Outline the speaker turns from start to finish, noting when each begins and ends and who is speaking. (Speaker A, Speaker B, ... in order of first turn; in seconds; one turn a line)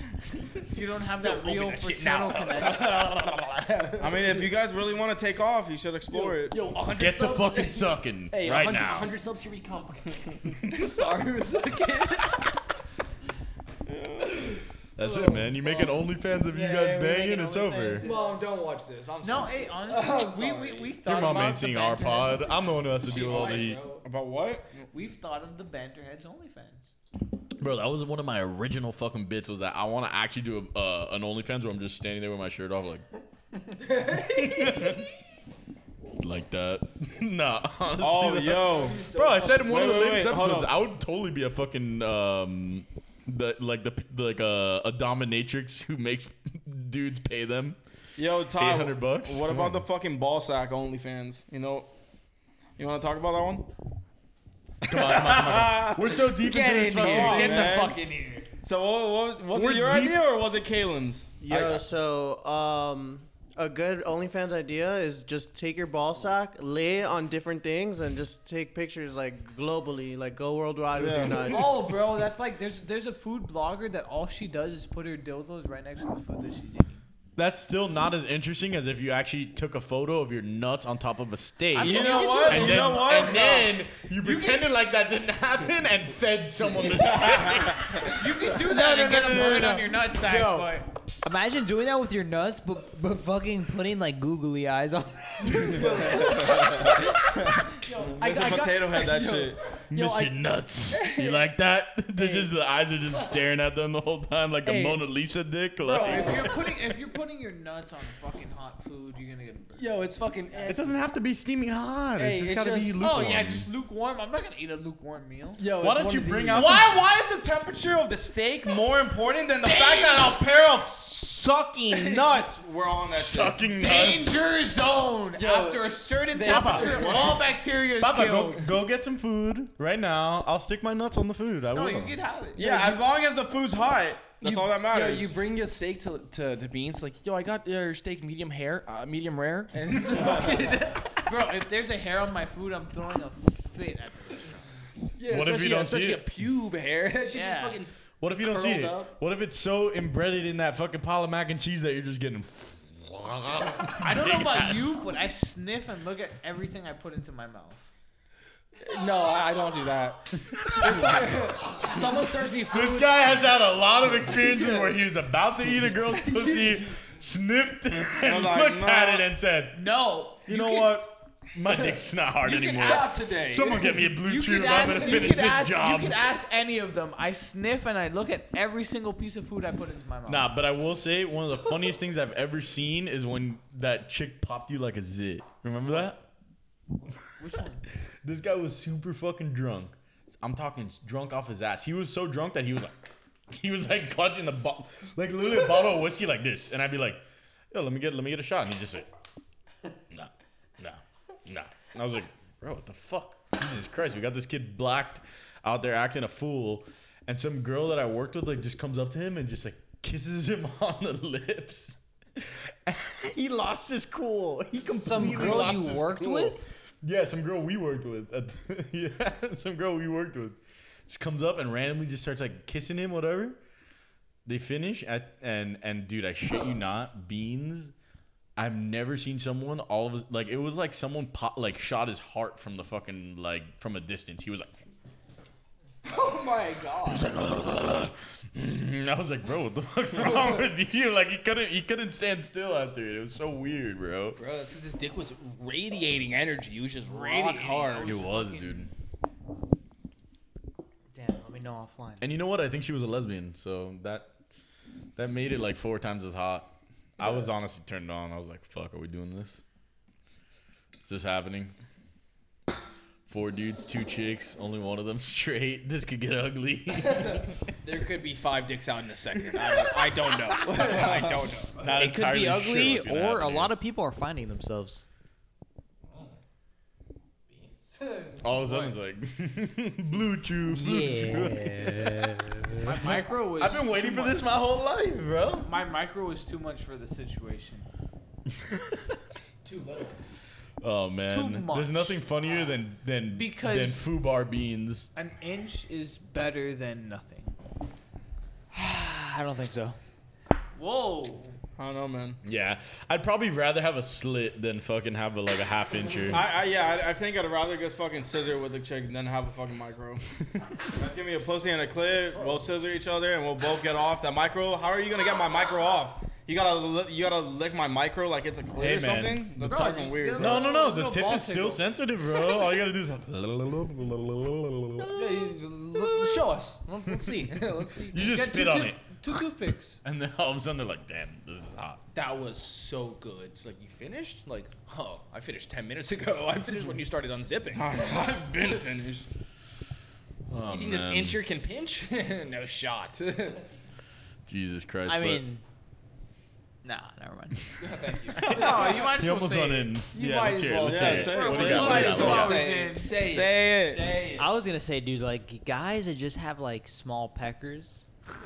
Speaker A: 0.7-3.3
Speaker B: 1.2-4.5
Speaker C: 4.0-6.6
Speaker B: 6.1-12.3
Speaker D: 6.9-9.2
Speaker A: 11.7-12.2
Speaker C: 13.9-14.4
Speaker B: 14.5-15.9
Speaker D: 14.9-18.1
Speaker A: 16.6-18.4
Speaker B: 18.0-21.0
Speaker A: 19.2-23.8
Speaker D: 21.0-23.9
Speaker B: 23.0-24.0
Speaker C: 24.0-24.9
Speaker A: 24.9-26.9
Speaker D: 27.6-33.0
Speaker B: 33.8-34.9
Speaker D: 34.2-35.1
Speaker D: 36.2-47.8
Speaker C: 38.0-39.0
Speaker B: 38.7-39.8
Speaker C: 39.7-40.7
Speaker C: 48.2-51.9
Speaker D: 48.6-49.8
Speaker C: 52.8-53.7
Speaker D: 54.8-57.9
Speaker C: 54.9-56.2
Speaker B: 56.4-58.5
Speaker C: 57.0-58.0
Speaker C: 58.6-61.8
Speaker D: 59.5-60.2
Speaker E: 61.4-72.0
Speaker C: 71.0-71.7
Speaker A: 71.5-77.0
Speaker D: 77.4-88.2
Speaker A: 81.7-83.4
Speaker C: 81.8-83.8
Speaker A: 84.2-84.5
Speaker C: 87.1-88.0
Speaker A: 88.0-90.9
Speaker F: 88.6-90.7
Speaker F: 91.2-96.9
Speaker D: 95.5-95.9
Speaker B: 95.5-97.0
Speaker C: 96.2-99.6
Speaker B: 97.7-101.5
Speaker D: 99.9-106.6
Speaker B: 102.2-102.5
Speaker B: 104.6-105.0
Speaker B: 105.8-106.8
Speaker A: 105.9-110.7
Speaker B: 109.8-111.0
Speaker D: 110.7-113.7
Speaker B: 112.2-113.0
Speaker A: 113.0-115.6
Speaker B: 115.6-116.7
Speaker D: 115.7-116.9
Speaker C: 116.5-123.7
Speaker A: 119.7-120.3
Speaker B: 121.9-122.4
Speaker D: 123.1-124.4
Speaker A: 123.8-128.7
Speaker B: 125.4-127.4
Speaker D: 126.4-127.4
Speaker D: 128.0-132.2
Speaker A: 131.7-132.7
Speaker C: 132.6-135.4
Speaker B: 132.6-133.0
Speaker B: 134.4-141.1
Speaker A: 140.1-144.6
Speaker B: 145.2-149.2
Speaker D: 145.3-146.3
Speaker A: 147.3-147.8
Speaker D: 148.2-154.9
Speaker A: 154.0-157.9
Speaker B: 158.8-163.2
Speaker D: 160.4-161.2
Speaker A: 160.8-161.3
Speaker D: 162.7-169.9
Speaker B: 164.4-164.9
Speaker B: 166.1-166.9
Speaker C: 168.2-169.3
Speaker A: 169.7-171.0
Speaker D: 170.4-176.2
Speaker A: 172.4-173.1
Speaker B: 172.6-174.1
Speaker A: 174.2-180.5
Speaker B: 174.7-175.4
Speaker D: 180.3-186.2
Speaker A: 187.4-187.8
Speaker D: 188.2-192.9
Speaker D: 193.5-199.1
Speaker D: 200.1-223.6
Speaker F: 214.9-216.6
Speaker D: 224.4-227.9
Speaker D: 228.6-234.8
Speaker B: 236.1-237.4
Speaker D: 237.1-244.4
Speaker B: 244.3-248.2
Speaker A: 247.1-248.7
Speaker D: 248.0-248.9
Speaker F: 251.1-252.3
Speaker D: 252.2-254.3
Speaker D: 255.2-259.6
Speaker D: 261.0-261.7
Speaker D: 263.3-267.5
Speaker B: 267.2-271.9
Speaker D: 271.7-273.7
Speaker F: 271.9-275.1
Speaker B: 277.6-278.4
Speaker D: 278.4-285.7
Speaker A: 278.5-278.9
Speaker F: 280.7-282.8
Speaker A: 282.8-284.5
Speaker A: 285.6-287.9
Speaker D: 288.5-289.2
Speaker B: 289.6-290.2
Speaker D: 290.8-295.1
Speaker A: 291.3-292.2
Speaker A: 293.4-294.0
Speaker A: 295.2-297.6
Speaker F: 298.7-300.0
Speaker A: 300.8-301.6
Speaker C: 301.8-302.4
Speaker D: 302.4-306.4
Speaker C: 306.3-310.2
Speaker C: 310.9-320.7
Speaker D: 318.8-326.5
Speaker A: 319.6-321.8
Speaker B: 325.1-328.1
Speaker D: 328.1-329.4
Speaker A: 328.1-330.0
Speaker D: 330.0-332.0
Speaker B: 332.1-338.2
Speaker C: 337.7-339.3
Speaker D: 340.5-341.4
Speaker B: 340.7-343.7
Speaker D: 344.5-345.4
Speaker F: 345.1-345.6
Speaker F: 346.8-347.6
Speaker B: 347.8-349.2
Speaker D: 348.3-352.6
Speaker A: 348.4-349.9
Speaker B: 350.1-354.4
Speaker C: 350.8-354.2
Speaker A: 351.3-353.2
Speaker F: 354.4-358.1